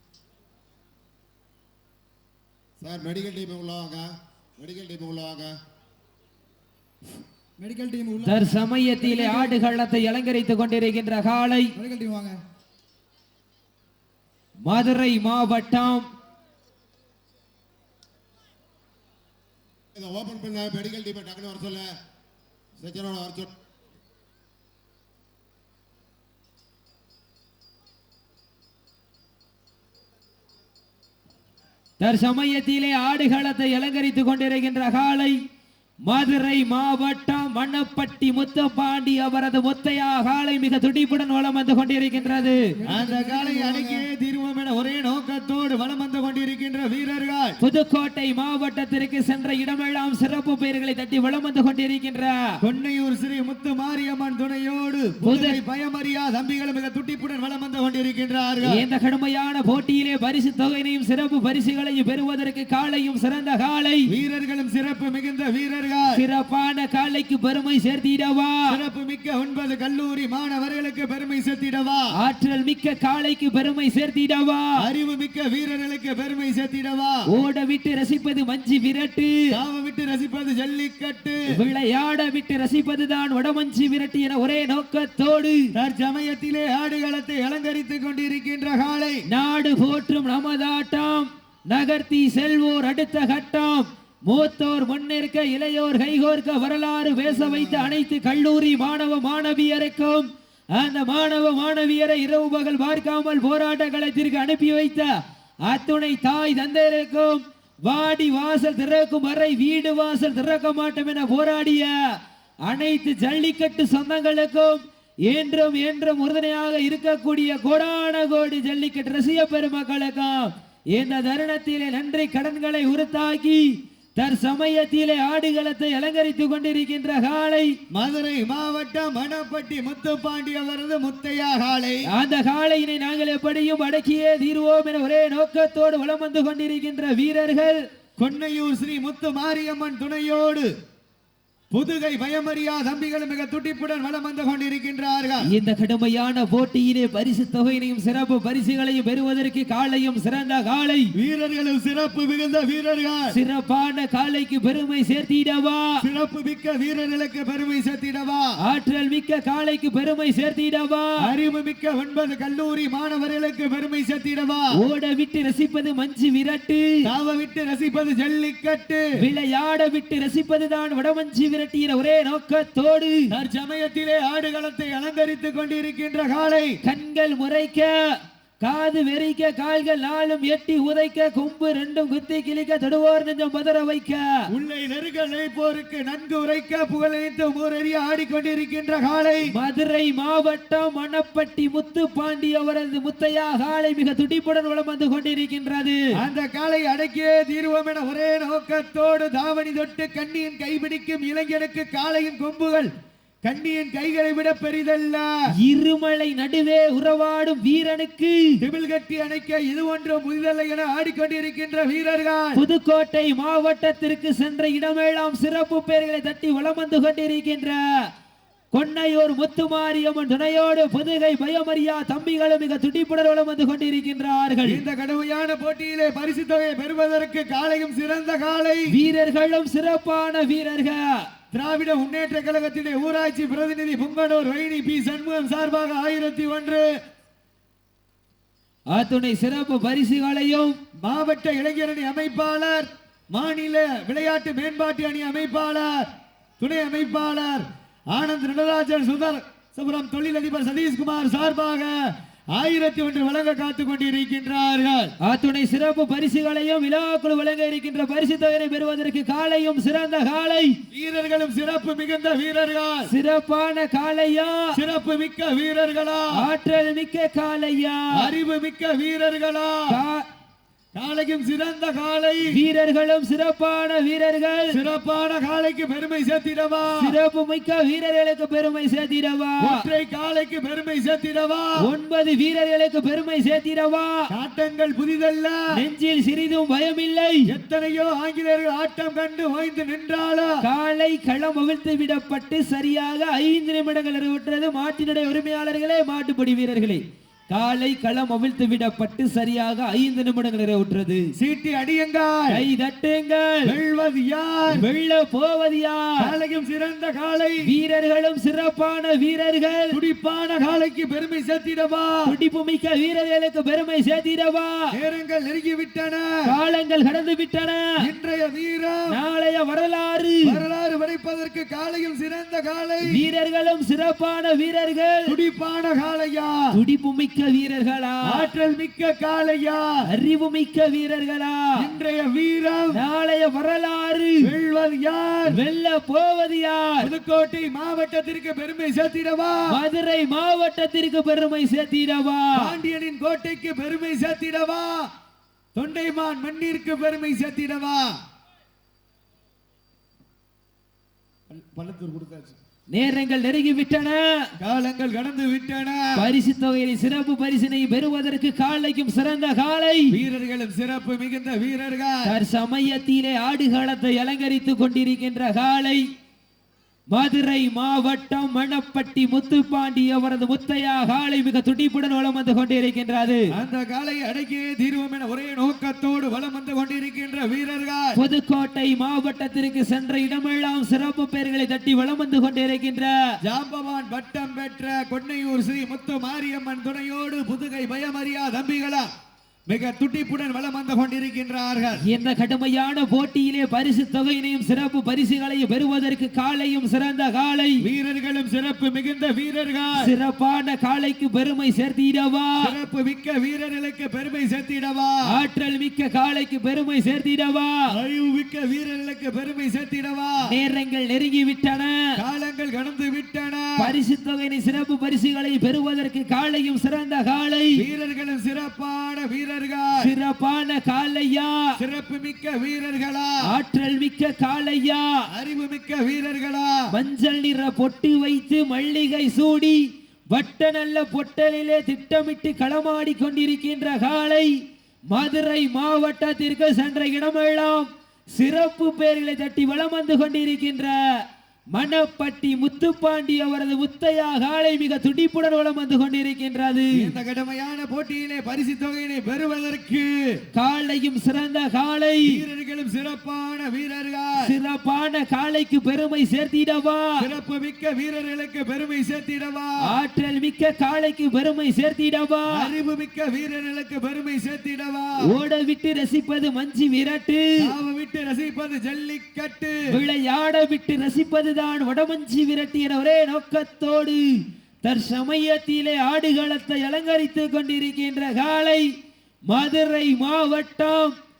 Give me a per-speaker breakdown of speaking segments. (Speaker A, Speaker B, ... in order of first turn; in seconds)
Speaker A: 2.8-5.6, 19.9-22.0, 22.8-23.5
Speaker B: 7.6-8.3, 9.0-9.5, 11.8-12.4, 42.8-44.0
Speaker C: 8.2-11.8, 14.7-16.1, 32.0-35.4, 36.1-42.8, 47.6-52.5, 55.2-55.6, 58.6-64.1, 66.1-68.7, 72.2-74.7, 77.3-79.4, 81.5-85.7, 89.3-127.8, 132.1-137.9, 145.4-151.1, 153.3-155.9, 158.6-161.1, 164.8-166.9, 169.2-173.3, 176.8-177.9, 178.6-184.3, 189.5-196.1, 205.6-208.6, 212.6-218.1, 218.7-224.8, 228.9-231.2, 238.9-240.8, 255.2-260.8, 263.1-264.7, 266.4-268.3, 269.9-270.3, 272.5-274.8, 277.0-279.9, 281.8-284.2, 285.8-287.5, 290.6-301.3, 302.5-303.7, 304.7-306.1, 307.7-310.0, 312.3-314.9, 316.5-317.9, 319.1-320.6, 323.1-325.3, 326.8-328.5, 330.1-331.7, 332.9-334.5, 335.5-337.1, 339.7-342.7, 352.9-354.4, 356.2-360.1, 362.2-366.0, 367.1-373.5, 378.1-383.2, 392.0-397.8, 400.0-402.7, 405.3-407.8, 410.5-412.0, 413.8-417.8, 420.0-421.6, 423.5-425.1, 426.9-429.8, 430.3-434.5, 435.1-447.1, 450.5-452.4, 454.4-457.2, 459.9-462.7, 465.2-467.5, 469.9-478.9, 479.5-481.1
Speaker D: 42.9-47.6, 52.6-58.8, 64.1-66.2, 68.7-72.1, 74.8-77.3, 79.5-81.5, 85.7-89.2, 97.3-97.9, 127.9-132.1, 138.2-140.7, 141.7-145.5, 151.2-153.4, 156.0-158.5, 161.2-164.7, 167.0-169.1, 173.3-176.8, 184.5-189.5, 196.2-202.9, 203.4-205.3, 208.6-212.6, 224.7-228.9, 231.5-236.9, 241.0-246.1, 246.6-252.0, 252.5-255.1, 260.9-263.1, 264.7-266.4, 268.2-269.9, 270.9-272.6, 274.7-277.1, 279.6-281.8, 284.3-285.6, 287.5-290.6, 301.4-302.6, 303.7-304.8, 306.2-307.6, 309.9-312.3, 314.9-316.3, 318.0-319.1, 320.4-323.1, 325.3-326.6, 328.2-329.9, 331.8-333.0, 334.4-335.6, 337.0-339.8, 342.6-345.1, 345.8-348.1, 351.5-352.6, 354.6-356.3, 360.1-362.3, 373.5-378.2, 383.4-389.1, 389.7-392.1, 397.8-400.1, 402.6-405.2, 407.9-410.4, 412.2-413.9, 417.8-420.1, 421.8-423.4, 425.3-426.8, 446.9-450.3, 452.2-454.5, 457.2-459.8, 462.5-465.2, 467.6-469.8